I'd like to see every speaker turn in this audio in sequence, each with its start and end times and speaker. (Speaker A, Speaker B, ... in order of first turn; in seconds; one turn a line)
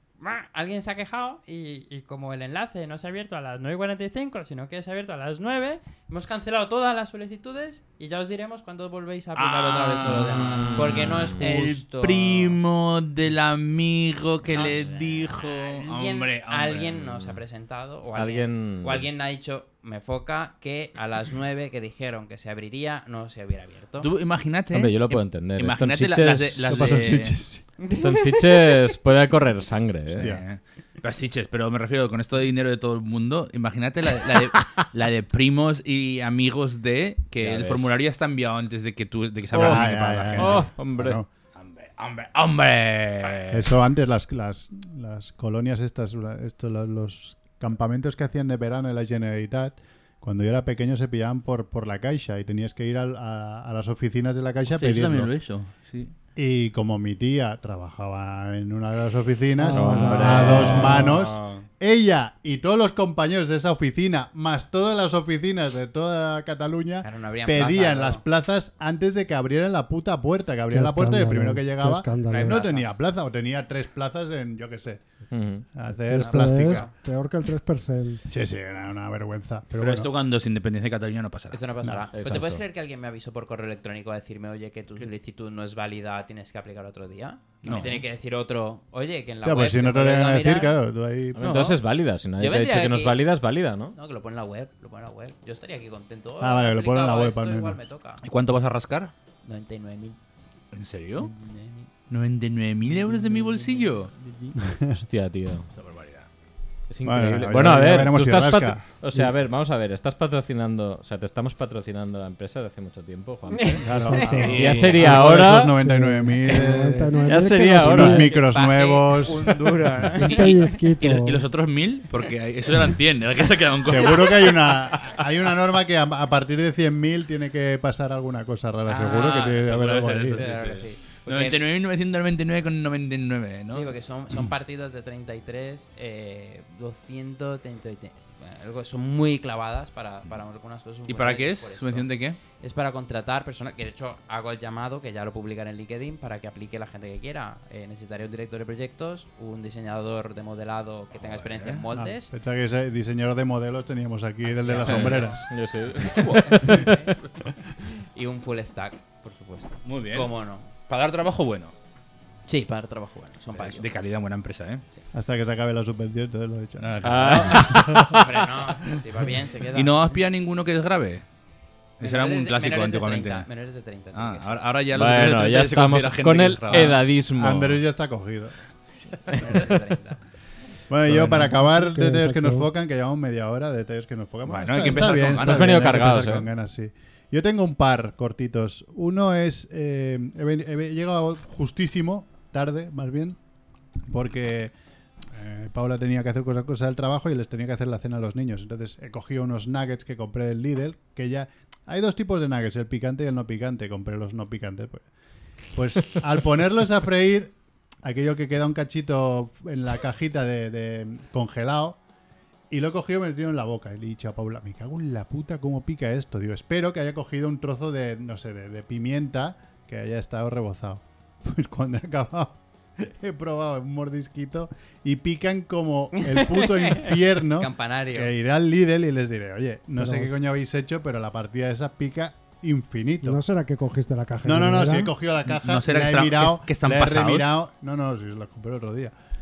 Speaker A: 0.2-12.6
Speaker B: 9.3-17.2
Speaker C: 10.6-11.3
Speaker A: 14.5-24.1
Speaker C: 18.1-19.1
Speaker B: 24.0-27.4
Speaker C: 24.7-26.8
Speaker D: 26.7-27.6
Speaker A: 27.8-28.9
Speaker C: 28.0-30.3
Speaker B: 30.1-40.7
Speaker D: 30.1-30.4
Speaker C: 37.4-37.9
Speaker C: 39.5-41.2
Speaker D: 39.5-41.2
Speaker B: 41.5-43.7
Speaker D: 43.5-55.3
Speaker B: 54.7-56.1
Speaker D: 56.4-75.0
Speaker E: 59.6-61.1
Speaker C: 59.7-61.5
Speaker A: 67.0-68.2
Speaker E: 70.7-72.6
Speaker A: 72.3-72.9
Speaker C: 75.3-75.7
Speaker D: 75.7-76.9
Speaker E: 76.0-78.2
Speaker A: 76.1-76.9
Speaker D: 78.3-80.1
Speaker B: 79.8-81.6
Speaker A: 81.5-90.8
Speaker D: 81.8-82.1
Speaker C: 82.1-82.6
Speaker B: 87.6-88.0
Speaker D: 89.4-91.5
Speaker C: 91.3-94.0
Speaker A: 91.4-91.8
Speaker A: 92.4-93.3
Speaker A: 93.9-98.2
Speaker D: 96.4-97.8
Speaker B: 98.2-99.1
Speaker A: 99.4-100.2
Speaker B: 100.7-101.3
Speaker A: 101.2-101.9
Speaker B: 102.1-104.1
Speaker A: 103.3-103.6
Speaker A: 104.2-104.5
Speaker D: 104.6-105.0
Speaker C: 104.9-105.7
Speaker B: 105.7-106.2
Speaker C: 106.9-115.8
Speaker D: 107.0-108.8
Speaker A: 113.5-113.8
Speaker D: 113.8-117.2
Speaker E: 113.9-118.3
Speaker B: 114.3-115.2
Speaker A: 114.3-114.8
Speaker C: 117.2-118.5
Speaker D: 117.8-119.7
Speaker A: 118.3-120.7
Speaker E: 120.2-121.4
Speaker B: 120.2-125.2
Speaker D: 123.8-130.4
Speaker B: 128.9-133.9
Speaker A: 130.3-131.6
Speaker A: 133.7-142.1
Speaker B: 141.1-142.4
Speaker A: 142.6-152.3
Speaker B: 151.2-151.8
Speaker D: 151.9-155.4
Speaker A: 154.4-155.4
Speaker B: 154.8-155.2
Speaker C: 155.5-157.1
Speaker A: 156.2-157.1
Speaker A: 157.8-160.7
Speaker B: 159.8-160.3
Speaker B: 160.9-161.7
Speaker A: 162.4-163.9
Speaker B: 163.5-164.8
Speaker D: 165.1-168.2
Speaker B: 166.8-167.8
Speaker C: 167.0-168.2
Speaker A: 167.4-170.2
Speaker B: 169.7-171.2
Speaker B: 172.0-173.5
Speaker A: 172.0-174.7
Speaker B: 174.1-177.0
Speaker C: 174.9-177.8
Speaker D: 177.3-178.5
Speaker A: 179.3-180.2
Speaker D: 180.9-193.4
Speaker E: 181.1-182.7
Speaker B: 184.4-185.8
Speaker C: 185.4-186.5
Speaker D: 194.1-194.7
Speaker D: 195.3-205.1
Speaker D: 205.7-212.0
Speaker D: 212.7-233.4
Speaker A: 226.2-228.3
Speaker E: 230.0-230.3
Speaker E: 233.2-235.1
Speaker D: 234.4-239.1
Speaker B: 235.5-237.6